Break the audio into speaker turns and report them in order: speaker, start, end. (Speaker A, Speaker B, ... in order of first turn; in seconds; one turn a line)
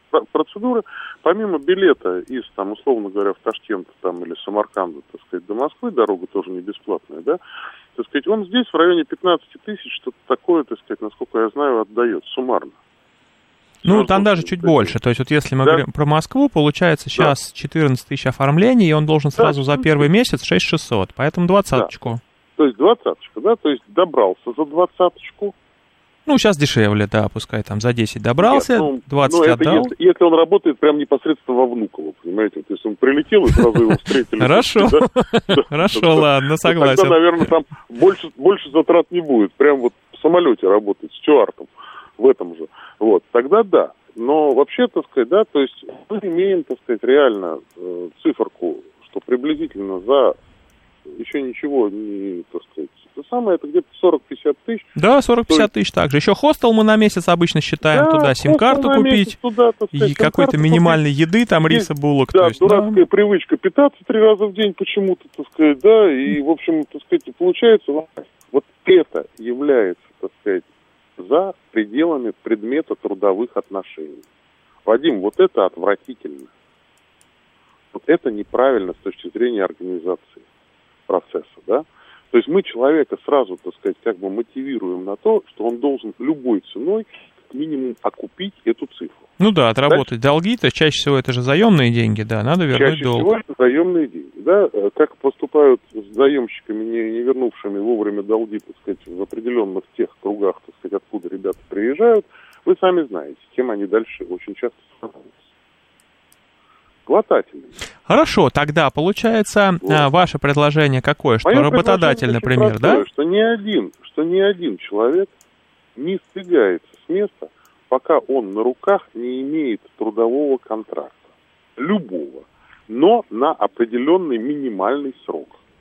Speaker A: 0.1-7.4
Speaker A: 7.9-12.7
Speaker B: 13.8-22.2
Speaker A: 13.8-14.9
Speaker A: 19.4-20.1
Speaker A: 22.6-25.5
Speaker B: 26.3-29.9
Speaker A: 28.4-50.4
Speaker B: 34.4-37.5
Speaker A: 51.1-54.9
Speaker B: 55.0-59.4
Speaker A: 57.9-61.0
Speaker B: 59.9-63.0
Speaker A: 61.7-70.6
Speaker A: 71.2-74.2
Speaker A: 74.8-76.5
Speaker A: 77.9-80.4
Speaker A: 81.1-89.3
Speaker B: 89.4-93.3
Speaker A: 92.7-105.4
Speaker A: 107.0-107.7
Speaker B: 108.1-113.0
Speaker A: 111.4-115.3
Speaker A: 116.0-125.6